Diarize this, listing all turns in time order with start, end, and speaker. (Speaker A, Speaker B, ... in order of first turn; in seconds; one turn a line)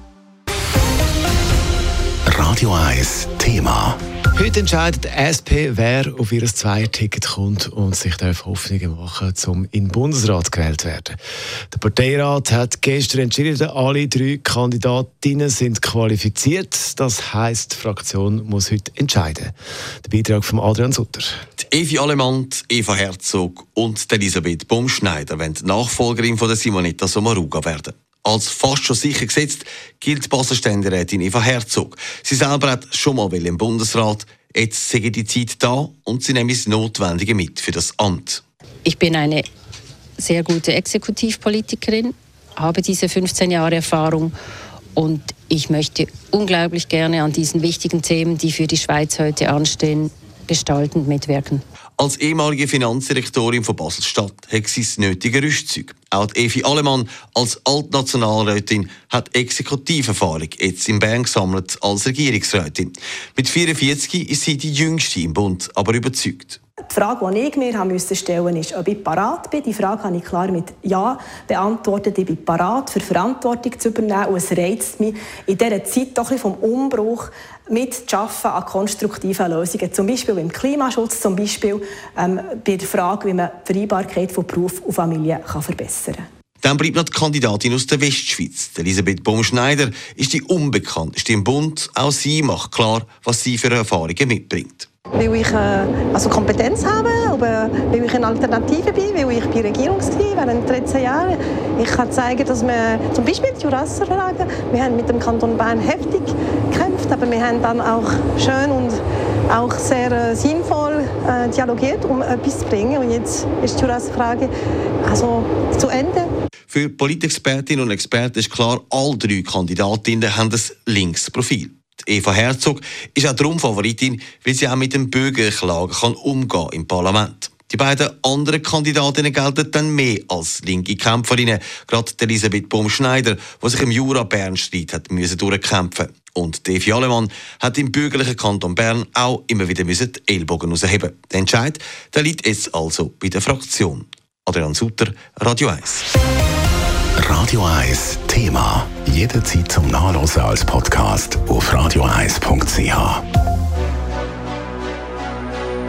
Speaker A: 2.2-4.0
Speaker B: 4.3-11.2
Speaker B: 11.7-21.3
Speaker C: 21.6-38.4
Speaker D: 38.8-39.5
Speaker D: 40.2-44.3
Speaker D: 45.0-51.6
Speaker C: 52.0-66.6
Speaker E: 66.9-86.2
Speaker C: 86.6-94.9
Speaker F: 95.2-114.5
Speaker F: 115.0-116.3
Speaker C: 116.7-146.1
Speaker A: 147.2-153.2